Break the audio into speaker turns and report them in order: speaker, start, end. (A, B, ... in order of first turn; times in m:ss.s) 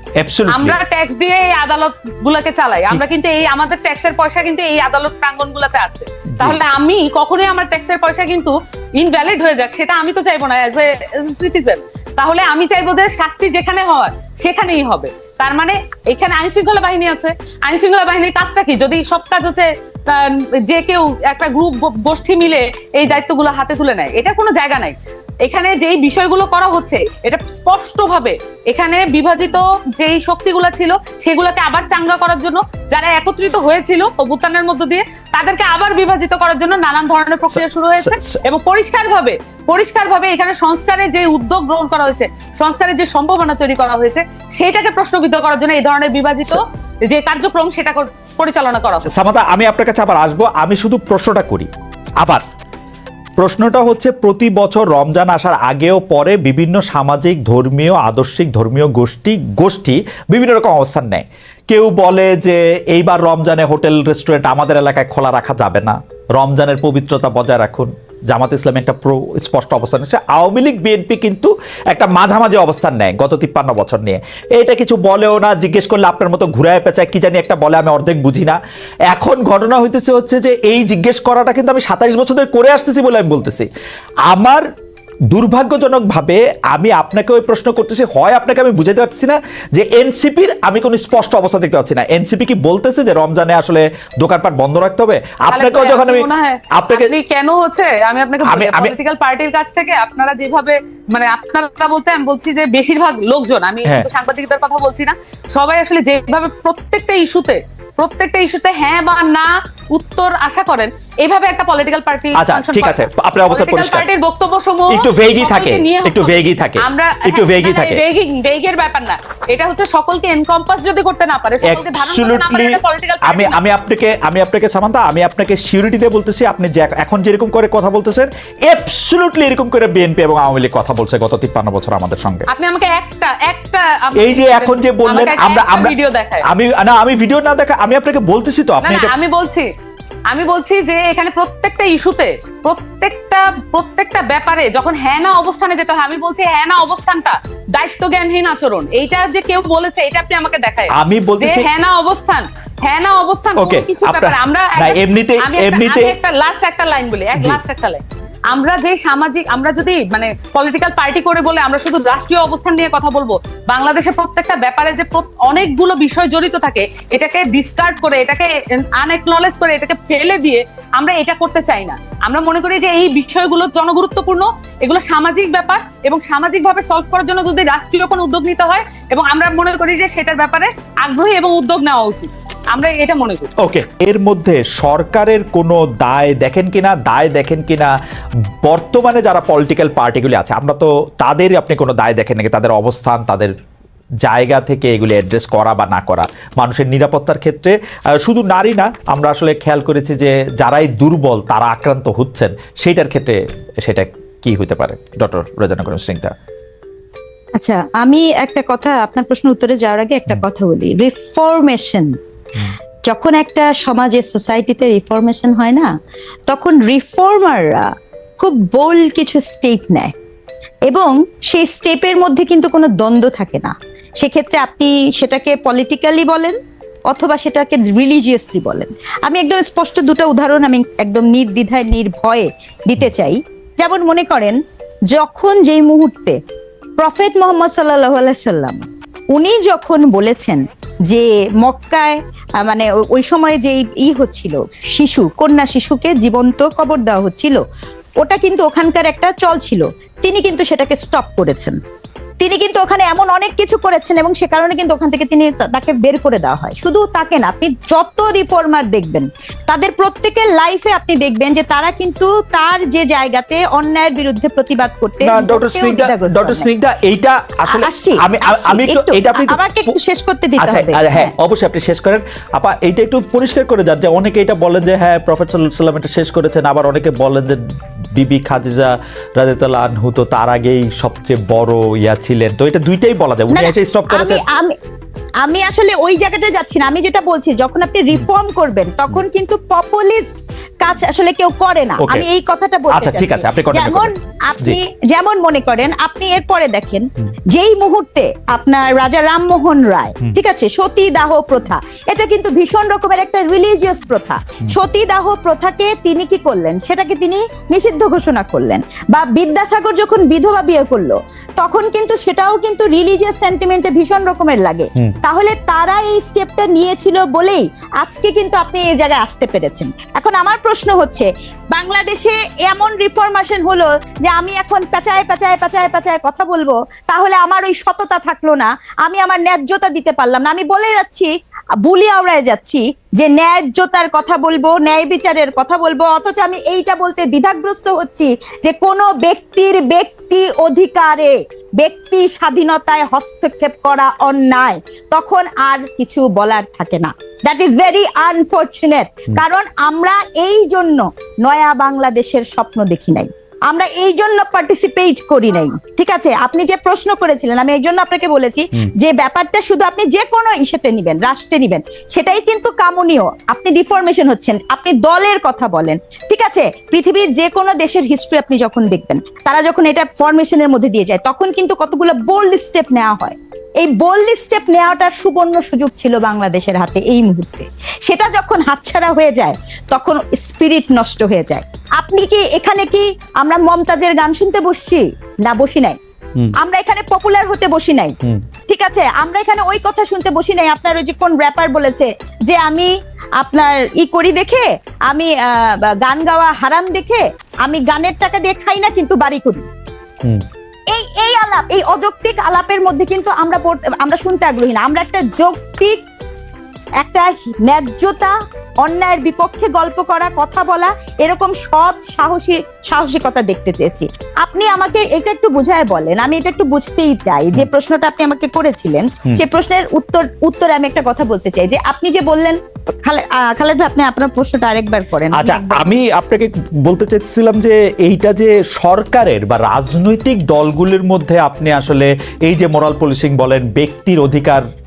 0:00.2-0:00.8 A
0:00.5-0:49.1 B
0:06.3-0:06.6 A
0:37.5-0:38.4 A
0:49.1-0:51.7 A
0:53.4-1:18.6 A
1:19.1-1:23.7 A
1:24.3-1:24.6 A
1:25.3-1:37.2 A
1:35.5-2:03.6 B
1:38.4-1:39.0 A
1:43.8-1:44.1 A
1:52.3-1:54.1 A
1:54.9-1:58.0 A
2:01.6-2:12.5 A
2:12.5-2:16.5 B
2:14.2-2:19.1 A
2:18.8-2:19.7 B
2:20.3-3:03.5 B
2:30.9-2:31.7 A
2:33.6-2:36.2 A
2:37.3-2:37.6 A
3:03.6-3:07.9 A
3:08.6-3:13.5 A
3:14.2-3:26.3 A
3:27.6-3:32.1 C
3:33.1-3:35.9 C
3:36.5-3:40.1 C
3:40.9-3:46.6 C
3:47.1-3:54.6 C
3:55.1-3:56.4 C
3:57.0-4:07.6 C
4:08.2-4:11.8 C
4:12.4-4:26.7 C
4:25.2-4:29.9 A
4:27.6-4:31.3 C
4:30.6-4:37.6 A
4:38.2-4:44.4 A
4:43.5-4:44.7 C
4:45.4-5:31.3 C
4:52.0-4:52.2 A
4:52.9-4:54.8 A
5:31.8-6:26.0 C
6:26.6-6:28.1 C
6:28.7-6:39.6 C
6:40.9-6:46.0 C
6:47.0-7:05.9 C
7:05.3-7:14.6 A